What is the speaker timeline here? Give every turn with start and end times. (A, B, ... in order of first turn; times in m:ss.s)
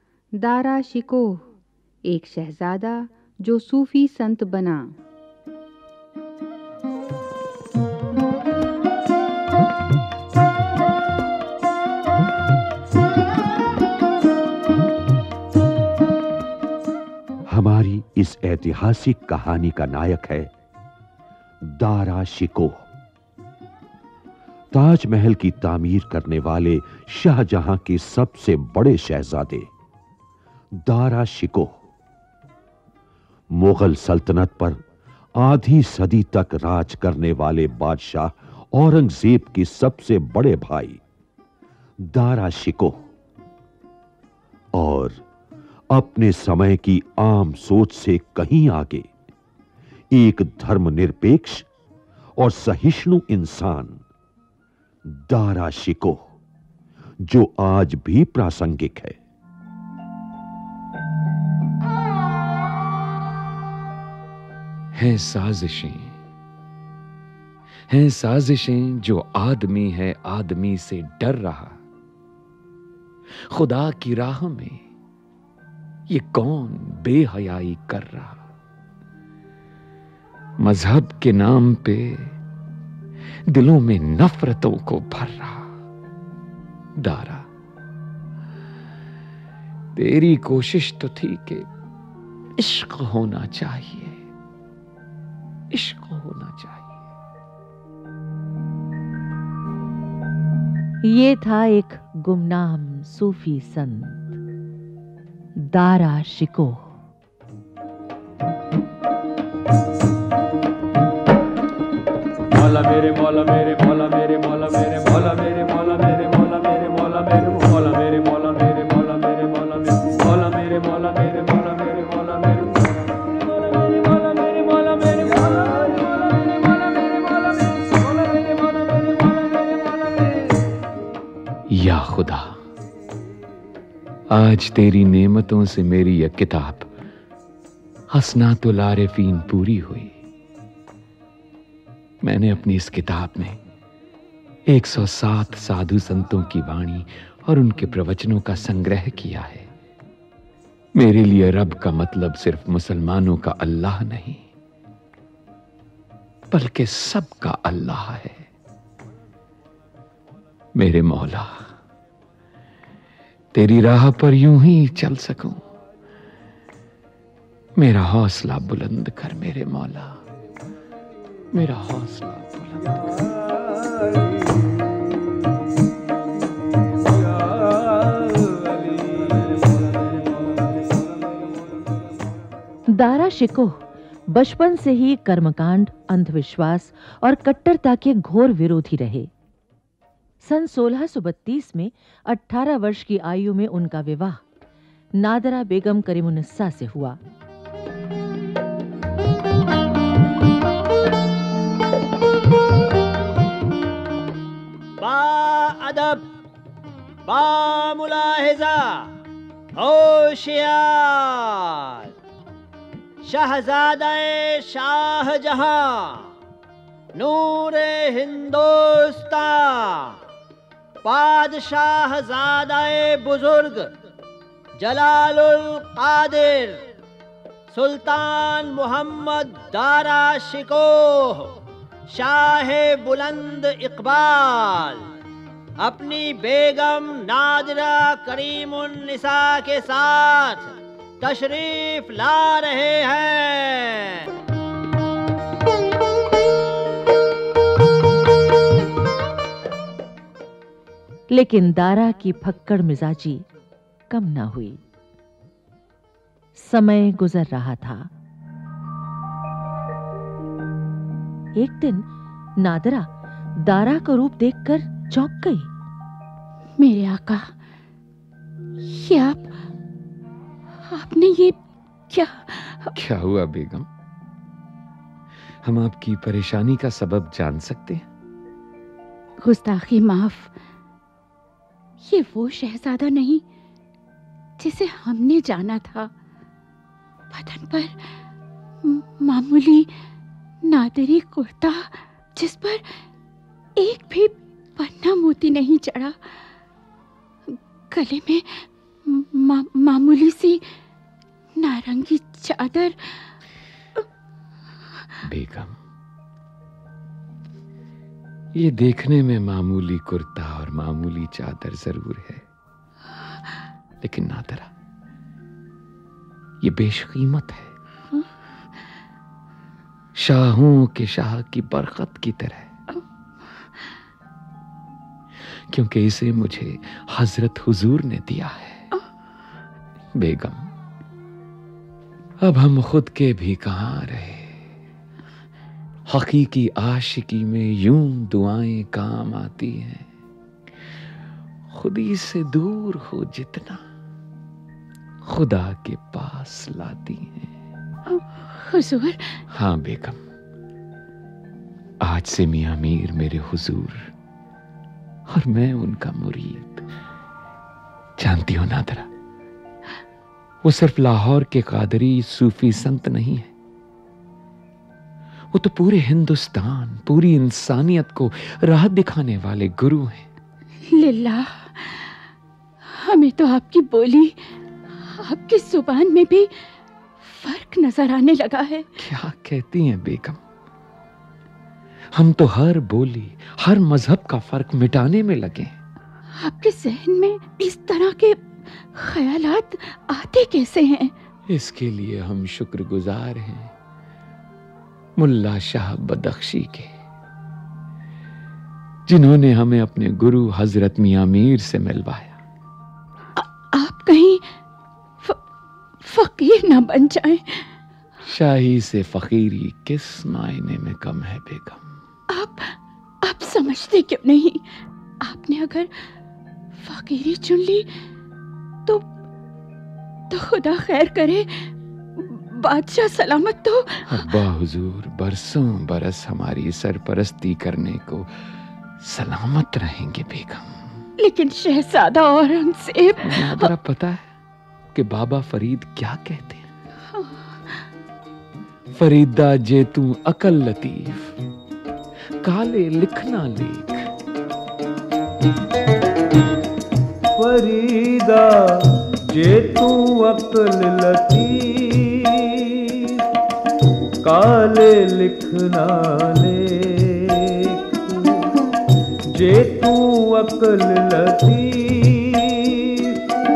0:00.3-0:01.5 A
0:02.0-0:04.9 A
0:17.5-0:20.5 B
0:21.6-0:22.8 B
0:24.7-0:29.7 B
0:30.8-0:31.7 B
0:33.5-0:34.8 B
0:35.4-0:41.0 B
0:42.1-0:43.0 B
0:44.8-0:45.2 B
0:45.9-0:49.0 B
0:50.1-0:51.7 B
0:52.4-0:54.0 B
0:55.1-0:56.2 B
0:57.2-0:59.2 B
1:04.9-1:06.2 C
1:07.9-1:11.8 C
1:13.5-1:14.8 C
1:16.1-1:18.4 C
1:20.6-1:22.4 C
1:23.5-1:25.7 C
1:27.0-1:27.5 C
1:29.9-1:31.7 C
1:32.6-1:34.2 C
1:35.7-1:37.0 C
1:41.0-1:44.3 D
1:45.6-1:46.9 D
1:52.5-2:10.2 E
2:11.7-2:12.6 C
2:14.3-2:16.9 C
2:18.1-2:20.2 C
2:22.2-2:23.6 C
2:24.7-2:29.7 C
2:30.9-2:34.4 C
2:36.5-2:38.5 C
2:40.8-2:41.8 C
2:43.5-2:45.7 C
2:47.8-2:50.2 C
2:51.5-2:52.9 C
2:53.4-2:55.2 E
2:57.1-3:01.6 E
3:02.9-3:09.3 D
3:10.4-3:14.4 D
3:15.2-3:17.2 D
3:25.0-3:26.2 F
3:27.2-3:29.1 F
3:29.8-3:32.1 F
3:33.2-3:36.2 F
3:37.2-3:40.2 F
3:41.0-3:43.9 F
3:44.8-3:46.8 F
3:47.7-3:51.5 F
3:52.1-3:55.0 F
3:55.8-4:00.7 F
4:01.2-4:04.2 F
4:11.3-4:13.4 D
4:14.1-4:14.8 D
4:16.5-4:18.1 D
4:21.6-4:25.7 D
4:26.8-4:27.6 G
4:28.8-4:29.5 G
4:30.8-4:33.0 G
4:32.9-4:33.9 C
4:35.6-4:38.1 C
4:39.4-4:40.5 G
4:42.0-4:43.4 G
4:44.6-4:46.1 G
4:47.3-4:48.0 G
4:48.8-4:49.9 G
4:50.7-4:52.8 G
4:53.8-4:56.3 G
4:57.5-5:00.7 G
5:01.6-5:03.3 G
5:05.2-5:05.8 C
5:08.5-5:12.4 C
5:14.0-5:14.7 C
5:16.6-5:17.7 C
5:20.1-5:22.7 C
5:25.7-5:28.8 C
5:30.1-5:30.7 C
5:32.4-5:34.6 C
5:36.1-5:40.1 C
5:41.7-5:43.8 C
5:45.2-5:47.5 C
5:48.1-5:49.4 G
5:49.5-5:50.2 C
5:52.0-5:54.1 C
5:55.3-5:56.9 C
5:58.2-5:59.1 C
6:00.6-6:03.5 C
6:05.5-6:10.3 C
6:10.9-6:12.2 G
6:12.9-6:14.4 G
6:15.0-6:16.5 G
6:17.2-6:18.9 G
6:19.0-6:20.4 C
6:22.1-6:25.8 C
6:26.4-6:31.1 G
6:31.5-6:33.7 C
6:35.2-6:36.9 C
6:39.1-6:42.4 C
6:43.4-6:44.4 G
6:46.0-6:47.7 G
6:48.2-6:51.9 C
6:52.3-6:54.6 G
6:55.2-6:55.9 G
6:56.8-6:57.9 G
7:00.3-7:04.4 G
7:04.1-7:08.3 C
7:09.0-7:10.9 C
7:11.2-7:13.7 G
7:13.2-7:14.3 C
7:14.9-7:16.7 C
7:17.2-7:17.8 G
7:18.9-7:21.4 C
7:22.4-7:24.1 C
7:27.3-7:33.0 E
7:34.2-7:38.4 E
7:39.4-7:43.1 E